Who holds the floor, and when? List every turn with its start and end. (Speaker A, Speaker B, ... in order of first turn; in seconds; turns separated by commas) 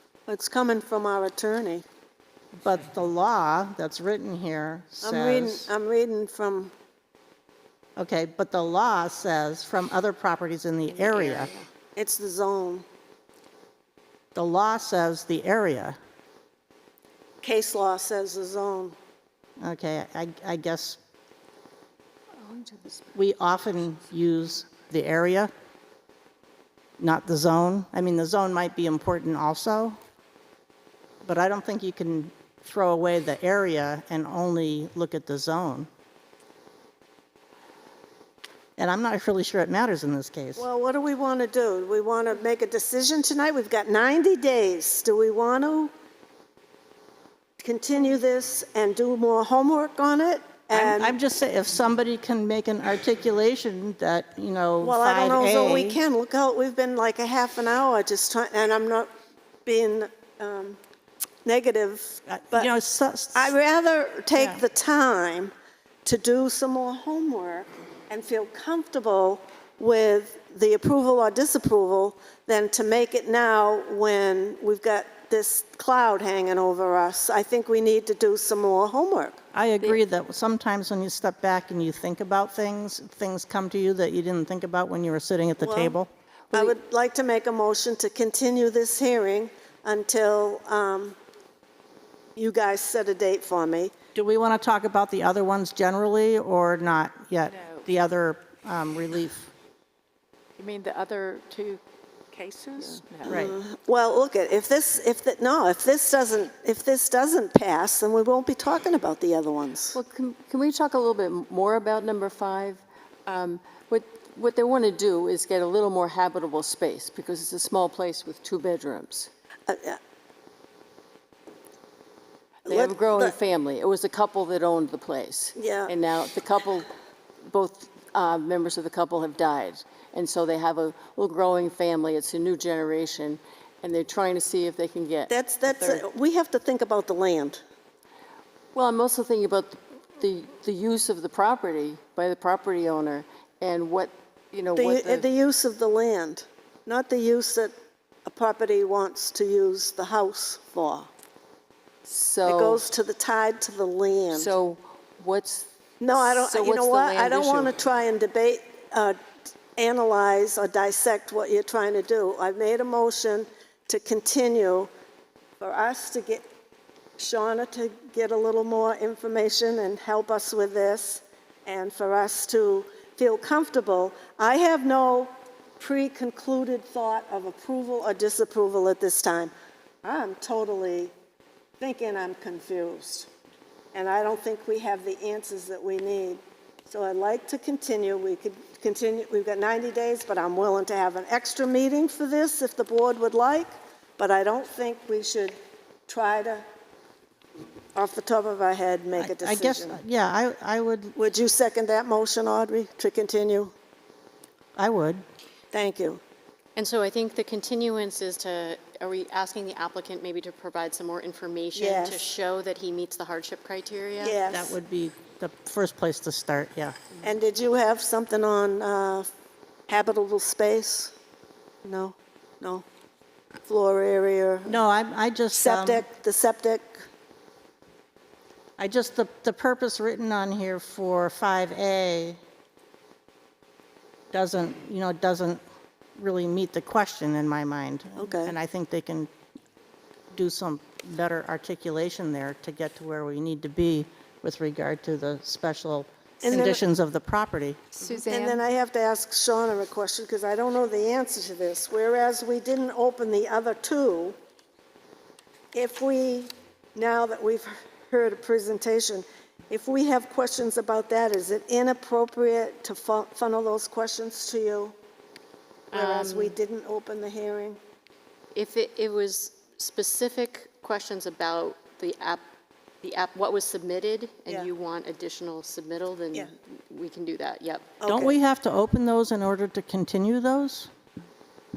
Speaker A: 0.3-1.8, Speaker B: 2.6-5.7, Speaker A: 5.0-6.7, Speaker B: 8.0-11.5, Speaker A: 11.9-12.9, Speaker B: 14.3-16.0, Speaker A: 17.4-19.0, Speaker B: 19.6-21.0, Speaker C: 22.4-23.0, Speaker B: 23.1-25.5, Speaker B: 27.0-30.0, Speaker B: 31.2-35.9, Speaker B: 38.8-40.6, Speaker A: 40.6-45.9, Speaker A: 47.6-51.2, Speaker B: 50.7-56.0, Speaker A: 54.8-59.1, Speaker A: 59.6-60.8, Speaker A: 61.5-62.7, Speaker B: 62.3-63.5, Speaker A: 63.3-65.5, Speaker B: 64.3-64.6, Speaker A: 66.0-79.4, Speaker B: 79.5-86.1, Speaker A: 85.6-86.0, Speaker A: 86.5-91.2, Speaker A: 92.4-93.9, Speaker B: 94.2-99.5, Speaker C: 100.6-103.5, Speaker B: 103.3-103.6, Speaker A: 103.3-110.0, Speaker D: 109.9-119.3, Speaker A: 119.7-120.0, Speaker D: 122.7-126.9, Speaker A: 122.7-123.3, Speaker A: 125.6-125.9, Speaker D: 127.4-136.0, Speaker A: 135.3-137.6, Speaker D: 138.7-145.3, Speaker A: 144.8-147.7, Speaker A: 148.2-151.1, Speaker D: 152.1-152.8, Speaker A: 152.4-154.5, Speaker D: 154.3-157.7, Speaker A: 156.0-159.2, Speaker A: 159.8-164.9, Speaker A: 165.6-166.5, Speaker A: 167.2-179.5, Speaker A: 180.0-181.1, Speaker A: 181.8-183.3, Speaker A: 183.9-195.6, Speaker A: 196.1-196.7, Speaker A: 197.9-200.0, Speaker B: 199.2-201.2, Speaker A: 201.2-203.7, Speaker B: 204.8-205.2, Speaker A: 205.7-206.2, Speaker E: 206.8-214.4, Speaker A: 211.7-212.3, Speaker A: 214.2-214.8, Speaker B: 214.5-217.0, Speaker A: 217.2-219.3, Speaker A: 219.9-221.1, Speaker A: 221.8-222.9, Speaker A: 223.7-224.8, Speaker B: 224.7-226.1, Speaker A: 225.5-227.1, Speaker B: 228.8-232.4, Speaker B: 234.3-235.6, Speaker B: 236.2-239.3, Speaker A: 238.2-238.5, Speaker B: 240.3-247.8, Speaker A: 246.4-246.8, Speaker C: 248.0-248.6, Speaker A: 248.3-254.4, Speaker A: 255.7-264.9, Speaker E: 265.9-266.6, Speaker A: 265.9-267.8, Speaker E: 268.5-272.4, Speaker E: 273.0-278.0, Speaker A: 278.0-278.4, Speaker B: 278.1-280.9